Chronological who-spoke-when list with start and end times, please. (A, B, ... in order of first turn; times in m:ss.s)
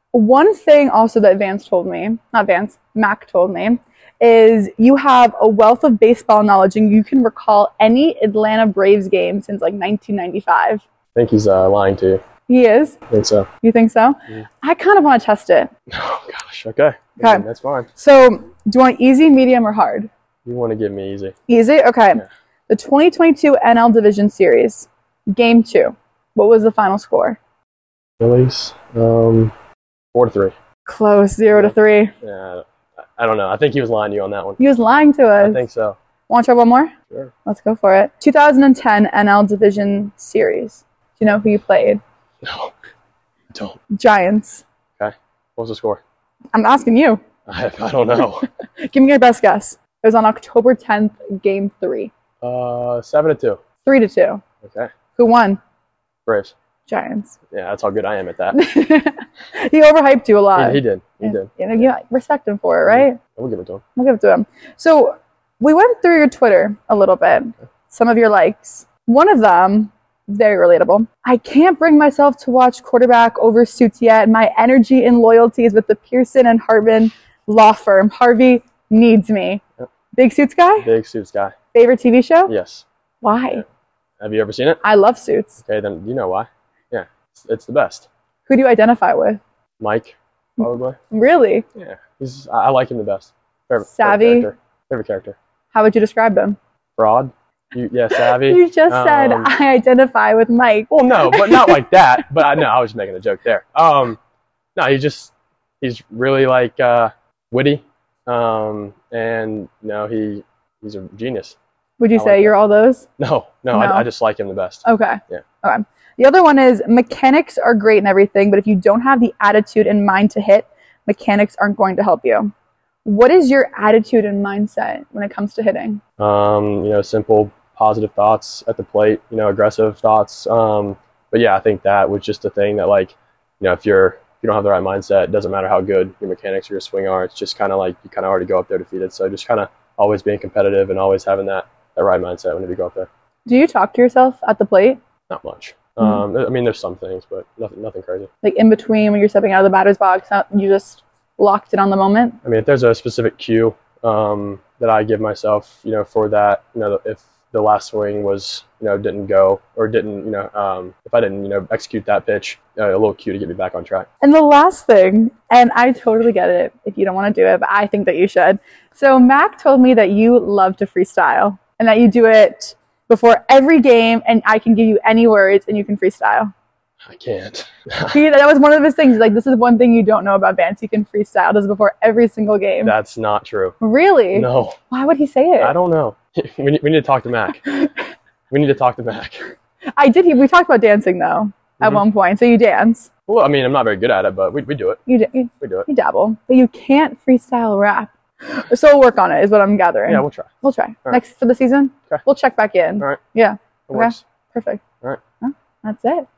0:00.1-0:10.8 A
0:11.1-0:12.2 B
0:12.5-0:13.0 A
0:13.1-0:13.5 B
0:13.6-0:15.7 A
0:15.9-0:17.9 B
0:17.2-0:17.4 A
0:18.0-0:20.1 A
0:20.4-0:21.4 B
0:21.5-0:27.4 A
0:28.2-0:29.5 B
0:30.1-0:30.5 B
0:30.8-0:32.1 A
0:31.5-0:32.6 B
0:33.2-0:34.6 B
0:34.6-0:35.6 A
0:35.4-0:36.0 B
0:36.3-0:36.9 A
0:37.4-0:42.0 A
0:42.4-0:42.7 B
0:43.5-0:43.8 B
0:43.9-0:44.6 A
0:45.0-0:46.0 B
0:46.5-0:47.2 A
0:47.5-0:48.5 B
0:48.8-0:52.1 A
0:52.4-0:53.6 B
0:53.8-0:54.4 A
0:54.6-0:54.9 B
0:55.2-0:55.6 A
0:56.2-0:56.5 B
0:56.9-0:57.3 A
0:57.5-0:58.6 B
0:58.5-1:03.2 A
1:00.6-1:01.8 B
1:02.8-1:03.8 B
1:04.0-1:19.6 A
1:20.2-1:20.9 A
1:20.8-1:21.5 B
1:21.7-1:22.5 A
1:22.5-1:22.8 B
1:23.2-1:23.6 A
1:24.2-1:24.8 B
1:24.8-1:25.6 A
1:25.6-1:28.1 B
1:28.5-1:29.4 A
1:29.8-1:31.0 B
1:30.6-1:31.6 A
1:31.8-1:35.4 B
1:33.8-1:34.5 A
1:35.7-1:36.6 A
1:37.0-1:39.5 B
1:38.2-1:41.8 A
1:40.9-1:44.2 B
1:44.8-1:51.6 B
1:52.0-1:53.1 A
1:52.1-1:52.6 B
1:53.2-1:55.4 B
1:53.7-1:54.0 A
1:54.8-2:02.5 A
2:03.0-2:06.0 A
2:06.2-2:23.1 B
2:23.4-2:25.0 A
2:25.3-2:28.3 B
2:28.4-2:32.4 A
2:32.4-2:44.1 B
2:44.2-2:56.5 A
2:57.0-2:58.2 B
2:58.1-3:02.9 A
3:02.8-3:03.8 B
3:03.8-3:05.7 A
3:04.3-3:04.8 B
3:05.6-3:07.6 B
3:08.5-3:09.4 B
3:10.0-3:13.1 A
3:13.3-3:15.0 B
3:15.1-3:24.8 A
3:15.6-3:15.9 B
3:20.1-3:20.5 B
3:23.9-3:24.2 B
3:25.4-3:26.2 A